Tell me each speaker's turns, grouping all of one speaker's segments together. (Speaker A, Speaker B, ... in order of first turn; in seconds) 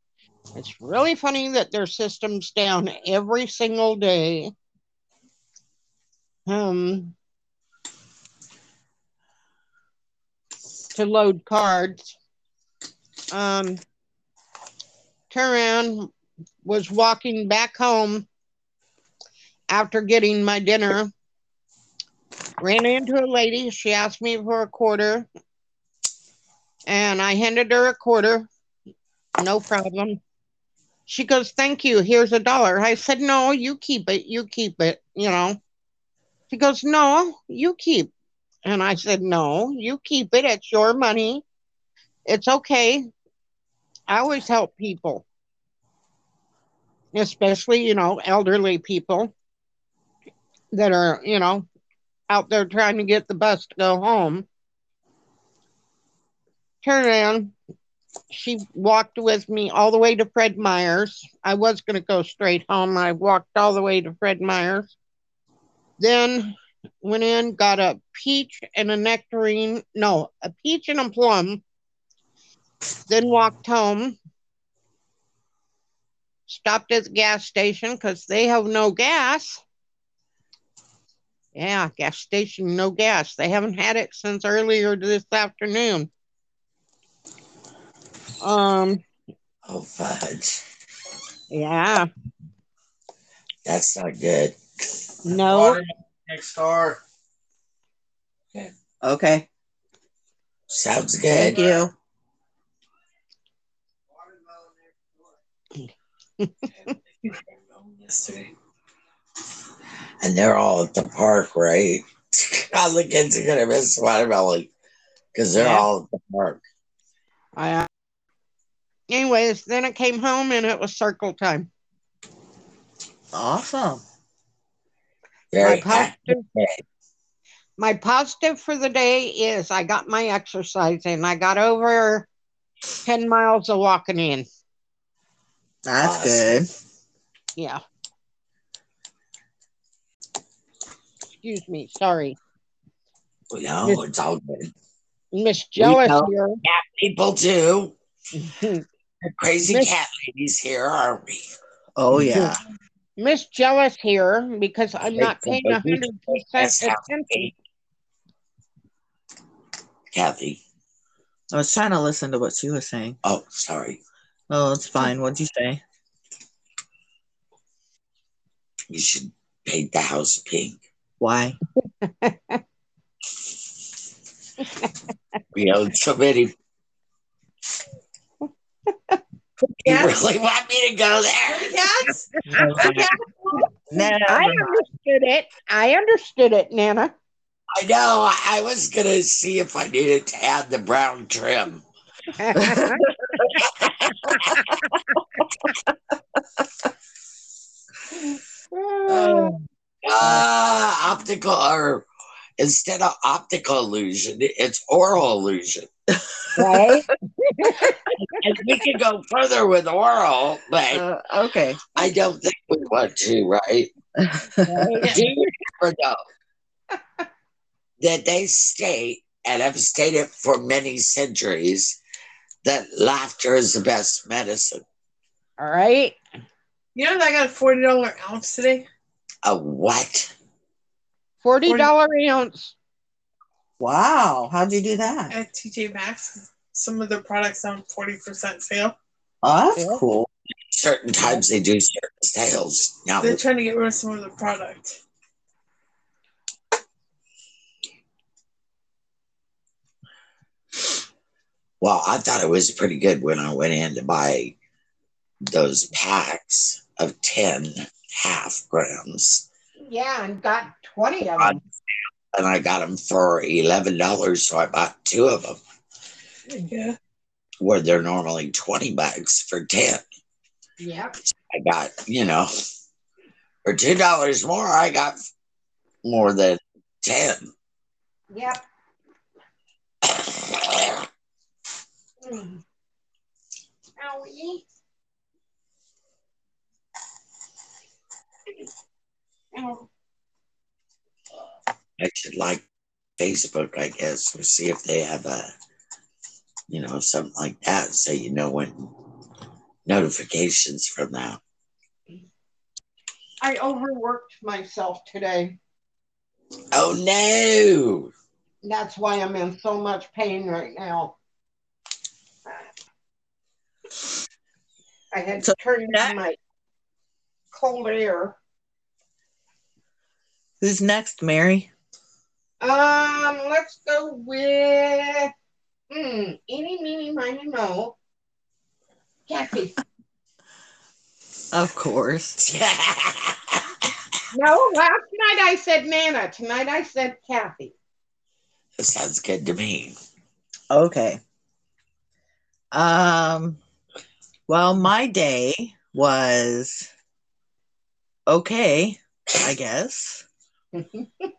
Speaker A: 0.6-4.5, 6.5-7.1, 10.9-12.2, 13.3-13.8, 15.3-16.1, 16.6-18.3, 19.7-21.1, 22.6-25.3, 26.9-28.5, 29.4-30.2, 31.1-35.6, 36.5-38.1, 38.6-41.4, 42.3-43.1, 44.1-45.2, 47.1-49.3, 50.7-51.7, 52.3-54.5, 56.8-57.5, 58.3-64.9, 66.0-71.6, 73.1-74.2, 76.5-79.6, 81.5-86.1, 88.4-89.0, 91.5-92.1, 95.2-95.8, 106.4-106.9, 115.6-115.9, 117.6-117.9, 119.1-121.7, 125.6-126.4, 127.8-132.3, 133.1-134.4, 137.6-137.8, 141.4-142.4, 145.3-146.6, 148.3-148.8, 149.6-149.9, 152.3-152.6, 153.2-157.5, 172.0-172.6, 174.6-174.9, 178.9-179.2, 182.4-187.1, 192.4-193.1, 198.7-199.6, 206.6-208.0, 214.6-215.2, 225.6-226.2, 231.4-232.8, 239.8-240.0, 259.8-261.6, 270.8-271.2, 278.3-278.6, 282.2-282.6, 284.0-284.6, 289.5-289.9, 303.4-305.6, 308.6-311.1, 315.1-316.4, 317.5-318.4, 322.6-325.3, 325.9-327.9, 329.3-329.8, 334.3-337.7, 350.8-351.0
Speaker B: 89.7-90.6, 93.7-94.6, 100.7-101.6, 110.2-114.7, 115.3-116.6, 125.5-126.8, 136.0-136.5, 143.5-144.7, 145.8-147.9, 149.2-151.4, 155.1-157.6, 160.1-160.6, 163.2-164.0, 168.9-170.8, 175.5-176.5, 179.6-181.8, 187.7-191.8, 193.6-194.6, 200.0-202.1, 202.6-205.9, 208.2-211.1, 211.9-213.9, 215.0-216.2, 218.0-222.0, 222.6-224.8, 229.4-230.3, 240.7-243.4, 251.8-254.6, 255.4-259.4, 262.3-265.6, 267.6-270.0, 271.5-272.5, 273.6-275.2, 276.0-277.5, 280.0-281.0, 292.0-292.6, 293.2-295.5, 296.7-298.9, 299.9-301.4, 306.7-308.1, 332.4-333.6, 338.8-339.9
Speaker C: 95.3-97.0, 104.2-104.8
Speaker D: 99.0-99.5, 101.3-101.9, 123.3-124.0, 135.8-136.7, 152.0-152.6, 161.5-163.2, 164.5-165.8, 171.2-171.6, 182.5-183.1, 183.9-184.8, 192.6-193.6, 199.1-199.6, 206.6-206.9, 210.9-212.0, 214.2-215.1, 233.8-235.3, 239.4-240.3, 315.4-316.2, 320.6-321.7, 331.5-332.4, 340.7-341.2, 342.7-343.6, 344.5-346.9, 348.3-350.2
Speaker E: 107.2-108.5, 179.8-180.2, 181.5-182.2, 226.9-228.8, 235.3-238.9, 243.2-245.0, 266.6-266.9